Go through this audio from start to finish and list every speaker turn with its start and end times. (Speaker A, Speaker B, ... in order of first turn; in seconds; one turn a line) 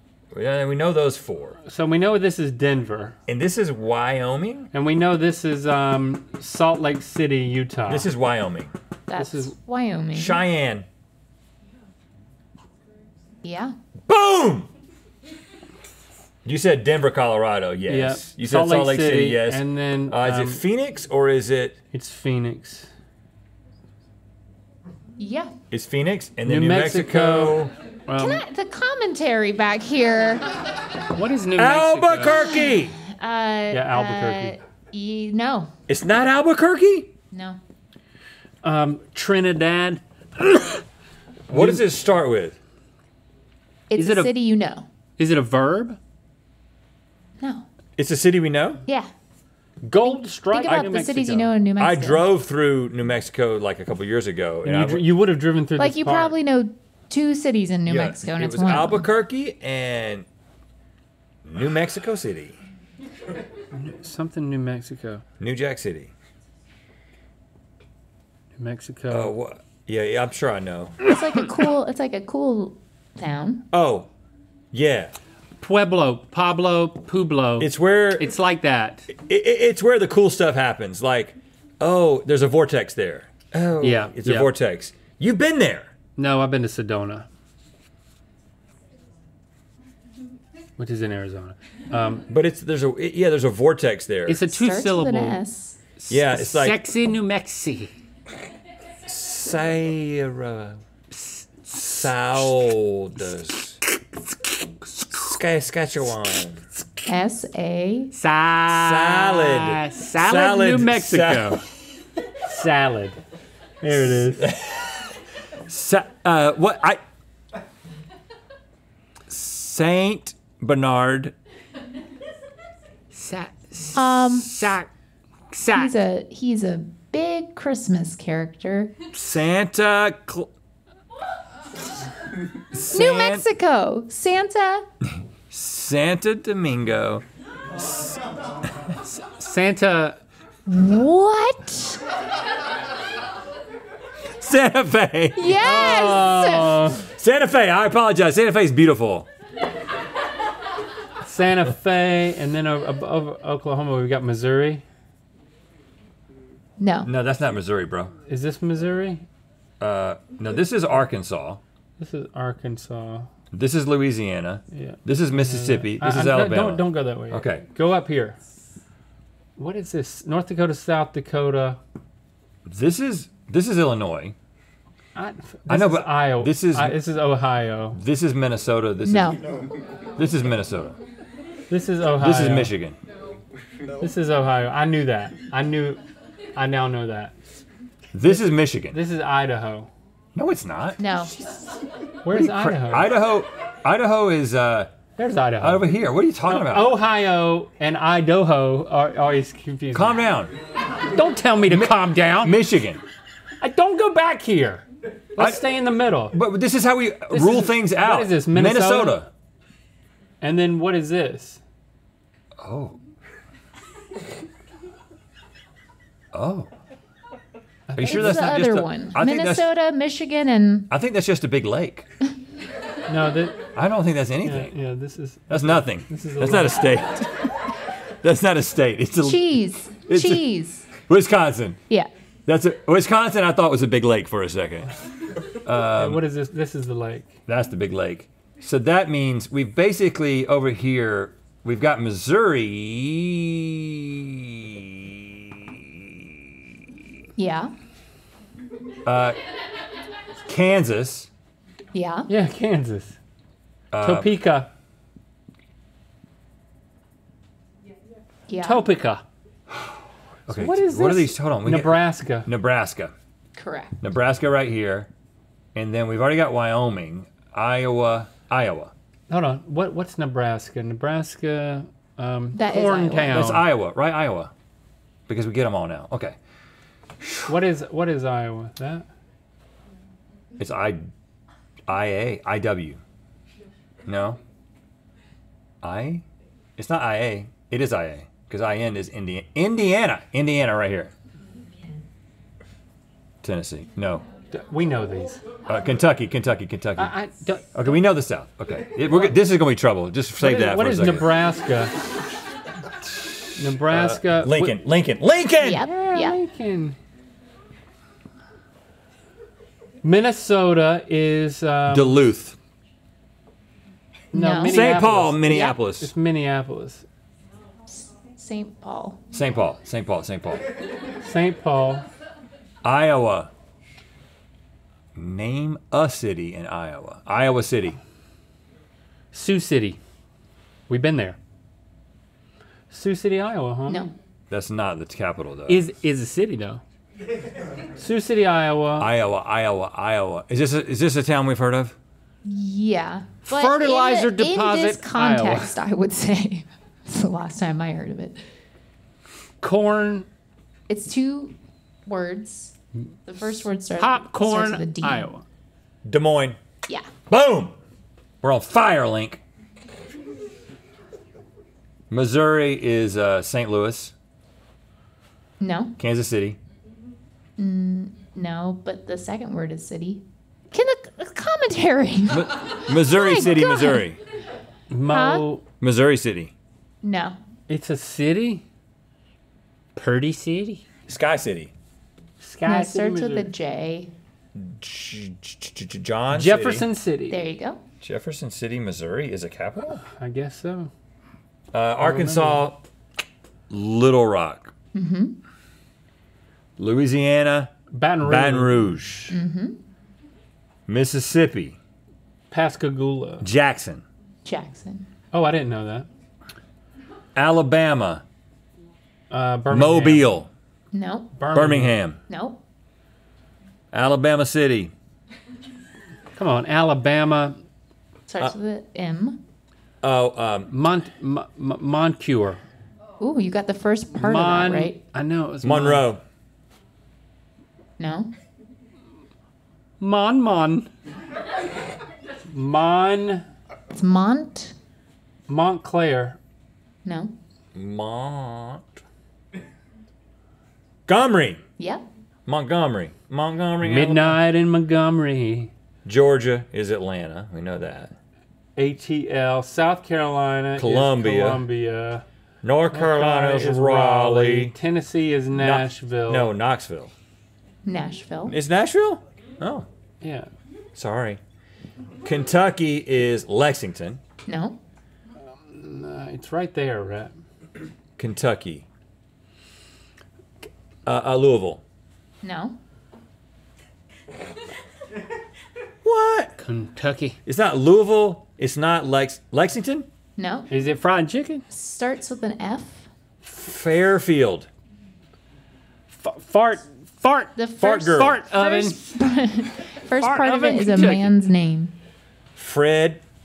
Speaker A: 0.3-1.6
Speaker B: 1.6-3.2
Speaker A: 3.3-4.7
Speaker B: 4.7-8.1
Speaker A: 7.9-8.7
Speaker C: 9.1-10.4
Speaker B: 9.2-9.5
Speaker A: 10.1-10.8
Speaker C: 13.4-13.7
Speaker A: 14.1-14.7
Speaker A: 16.4-21.8
Speaker B: 17.9-20.6
Speaker B: 21.9-22.9
Speaker C: 25.2-25.5
Speaker A: 25.7-27.7
Speaker B: 26.4-28.4
Speaker C: 28.2-30.6
Speaker B: 31.1-32.5
Speaker A: 31.5-33.0
Speaker C: 32.3-35.7
Speaker B: 33.7-34.6
Speaker A: 35.9-37.1
Speaker C: 37.3-37.6
Speaker B: 38.6-40.8
Speaker A: 41.5-42.6
Speaker B: 41.5-41.8
Speaker C: 43.9-44.9
Speaker B: 44.0-44.3
Speaker B: 45.2-46.0
Speaker C: 47.4-47.7
Speaker A: 48.0-48.8
Speaker B: 49.8-51.5
Speaker C: 50.0-52.2
Speaker A: 51.8-55.1
Speaker B: 54.6-56.4
Speaker C: 55.8-59.0
Speaker A: 57.9-60.2
Speaker A: 61.4-62.5
Speaker B: 63.7-65.2
Speaker A: 65.4-66.1
Speaker B: 68.6-69.3
Speaker A: 69.1-71.0
Speaker C: 71.0-73.6
Speaker A: 73.7-74.1
Speaker A: 74.7-75.1
Speaker B: 75.6-79.1
Speaker A: 77.6-78.3
Speaker A: 79.1-85.9
Speaker B: 83.8-84.5
Speaker B: 86.2-87.3
Speaker B: 90.8-92.3
Speaker A: 92.3-94.4
Speaker B: 94.3-95.4
Speaker C: 94.5-95.8
Speaker B: 96.0-97.9
Speaker A: 96.1-96.8
Speaker A: 99.0-100.8
Speaker B: 101.1-102.5
Speaker A: 101.7-103.8
Speaker B: 103.9-105.3
Speaker A: 105.1-106.6
Speaker C: 107.1-108.1
Speaker B: 108.1-111.7
Speaker A: 108.7-111.6
Speaker B: 112.4-113.2
Speaker B: 113.8-114.5
Speaker A: 113.9-117.0
Speaker A: 119.3-121.3
Speaker B: 123.1-124.9
Speaker C: 123.9-124.7
Speaker B: 125.5-125.9
Speaker C: 125.7-128.9
Speaker A: 129.1-130.5
Speaker A: 132.7-133.4
Speaker C: 132.9-134.9
Speaker A: 135.1-137.2
Speaker A: 137.8-138.2
Speaker B: 139.0-140.2
Speaker C: 140.7-142.0
Speaker A: 144.3-145.5
Speaker C: 145.3-146.9
Speaker B: 145.5-147.1
Speaker A: 147.1-149.3
Speaker B: 151.2-154.8
Speaker C: 156.8-157.1
Speaker A: 157.0-158.1
Speaker B: 158.3-159.2
Speaker A: 159.8-161.6
Speaker B: 162.0-163.3
Speaker A: 163.5-167.6
Speaker B: 164.7-168.4
Speaker B: 169.6-171.8
Speaker A: 172.7-174.3
Speaker B: 175.1-178.0
Speaker A: 175.7-177.0
Speaker A: 177.9-179.4
Speaker C: 179.0-179.4
Speaker A: 180.2-181.0
Speaker B: 181.7-182.7
Speaker A: 182.2-183.0
Speaker B: 184.0-186.0
Speaker B: 186.6-187.3
Speaker A: 188.1-189.0
Speaker B: 188.9-189.9
Speaker A: 190.3-191.1
Speaker C: 191.0-191.3
Speaker B: 192.2-193.1
Speaker A: 192.3-194.9
Speaker B: 195.2-195.9
Speaker A: 195.6-196.9
Speaker B: 196.4-200.2
Speaker A: 199.9-200.5
Speaker B: 201.1-202.6
Speaker A: 201.7-203.0
Speaker B: 203.6-206.3
Speaker A: 205.4-205.7
Speaker A: 206.3-209.3
Speaker B: 207.3-209.2
Speaker B: 210.4-211.6
Speaker A: 212.6-213.0
Speaker A: 216.3-216.7
Speaker B: 217.9-218.4
Speaker A: 217.9-219.7
Speaker C: 218.0-220.9
Speaker A: 220.9-222.1
Speaker B: 223.1-223.6
Speaker A: 223.7-224.7
Speaker B: 224.4-226.8
Speaker A: 225.5-230.4
Speaker C: 229.2-230.9
Speaker A: 231.0-231.8
Speaker A: 232.5-234.9
Speaker A: 235.5-236.2
Speaker B: 235.9-237.4
Speaker A: 237.5-247.0
Speaker C: 247.4-247.7
Speaker A: 249.0-249.4
Speaker A: 250.4-251.3
Speaker C: 251.9-252.3
Speaker B: 252.3-253.2
Speaker A: 253.9-254.3
Speaker B: 254.0-254.7
Speaker C: 258.5-258.8
Speaker B: 258.6-259.2
Speaker A: 260.5-263.1
Speaker B: 260.5-262.5
Speaker C: 263.5-264.0
Speaker A: 264.0-265.1
Speaker A: 265.7-268.9
Speaker B: 269.3-273.6
Speaker C: 272.5-273.4
Speaker A: 273.2-274.5
Speaker A: 275.3-276.4
Speaker B: 277.5-279.1
Speaker A: 280.6-281.1
Speaker A: 281.9-283.0
Speaker A: 284.1-284.4
Speaker A: 285.8-286.2
Speaker A: 286.8-291.1
Speaker A: 293.4-294.2
Speaker B: 294.5-295.4
Speaker A: 295.7-297.1
Speaker B: 296.9-297.9
Speaker A: 297.7-301.3
Speaker B: 300.4-301.9
Speaker A: 303.2-305.9
Speaker B: 303.6-304.8
Speaker C: 305.6-306.4
Speaker B: 305.8-307.0
Speaker B: 310.0-312.2
Speaker A: 311.9-312.6
Speaker C: 314.3-314.9
Speaker B: 314.3-317.0
Speaker A: 314.6-316.1
Speaker C: 317.9-319.2
Speaker A: 319.3-320.7
Speaker B: 321.2-322.1
Speaker A: 322.8-323.5
Speaker A: 325.1-328.0
Speaker B: 329.3-330.0
Speaker B: 330.9-331.4
Speaker B: 332.9-334.1
Speaker A: 334.5-335.8
Speaker B: 335.7-336.8
Speaker B: 338.0-339.1
Speaker A: 339.0-341.9
Speaker C: 342.4-348.4
Speaker B: 343.4-345.7
Speaker B: 349.6-350.3
Speaker C: 350.9-355.3
Speaker B: 354.0-355.4
Speaker A: 356.0-356.6
Speaker A: 357.3-357.7
Speaker A: 358.4-359.4
Speaker A: 362.1-364.1
Speaker C: 365.6-365.9
Speaker A: 366.0-366.6
Speaker C: 367.6-374.1
Speaker A: 372.3-374.2
Speaker B: 374.9-375.6
Speaker C: 375.1-375.5
Speaker A: 375.8-376.5
Speaker C: 377.0-377.4
Speaker B: 377.7-378.6
Speaker B: 379.9-380.9
Speaker A: 381.1-381.7
Speaker B: 382.4-383.5
Speaker C: 382.6-384.1
Speaker A: 384.5-386.9
Speaker B: 386.3-387.4
Speaker C: 387.3-387.8
Speaker A: 388.0-390.0
Speaker B: 390.1-390.9
Speaker A: 391.7-392.8
Speaker B: 392.0-392.6
Speaker A: 393.7-394.7
Speaker C: 394.9-395.4
Speaker A: 396.8-399.4
Speaker B: 397.9-398.9
Speaker C: 399.3-399.8
Speaker A: 400.9-401.8
Speaker B: 402.5-403.4
Speaker A: 403.4-404.0
Speaker C: 404.4-405.1
Speaker B: 405.3-406.1
Speaker A: 407.3-408.2
Speaker B: 409.3-410.3
Speaker A: 409.7-410.5
Speaker C: 410.9-411.4
Speaker B: 411.4-411.9
Speaker A: 411.5-412.2
Speaker C: 412.3-412.6
Speaker A: 413.9-414.9
Speaker B: 416.4-417.6
Speaker C: 418.3-419.4
Speaker A: 420.0-420.7
Speaker B: 420.7-422.6
Speaker C: 423.2-425.0
Speaker B: 424.1-426.1
Speaker A: 425.6-426.2
Speaker C: 428.0-428.3
Speaker B: 430.0-430.9
Speaker B: 432.5-433.5
Speaker C: 433.9-434.7
Speaker B: 435.5-436.4
Speaker C: 437.0-437.3
Speaker A: 437.7-439.0
Speaker A: 441.1-441.6
Speaker C: 441.8-442.0
Speaker A: 442.4-444.4
Speaker B: 443.8-445.7
Speaker A: 446.1-448.1
Speaker B: 448.8-452.2
Speaker A: 450.8-451.6
Speaker A: 452.6-454.7
Speaker B: 452.9-456.5
Speaker A: 455.5-457.1
Speaker C: 457.8-458.5
Speaker A: 458.5-459.9
Speaker B: 460.2-460.5
Speaker A: 460.9-461.4
Speaker A: 462.2-464.2
Speaker C: 464.4-464.8
Speaker B: 465.6-467.3
Speaker A: 468.2-468.9
Speaker A: 471.1-471.8
Speaker C: 472.4-472.8
Speaker A: 476.0-476.6
Speaker B: 476.6-477.4
Speaker A: 477.4-480.1
Speaker C: 480.4-480.7
Speaker B: 480.7-481.6
Speaker C: 481.7-483.1
Speaker A: 483.4-484.7
Speaker B: 486.1-489.0
Speaker C: 487.6-491.9
Speaker A: 487.8-488.4
Speaker B: 490.2-491.3
Speaker A: 492.6-493.2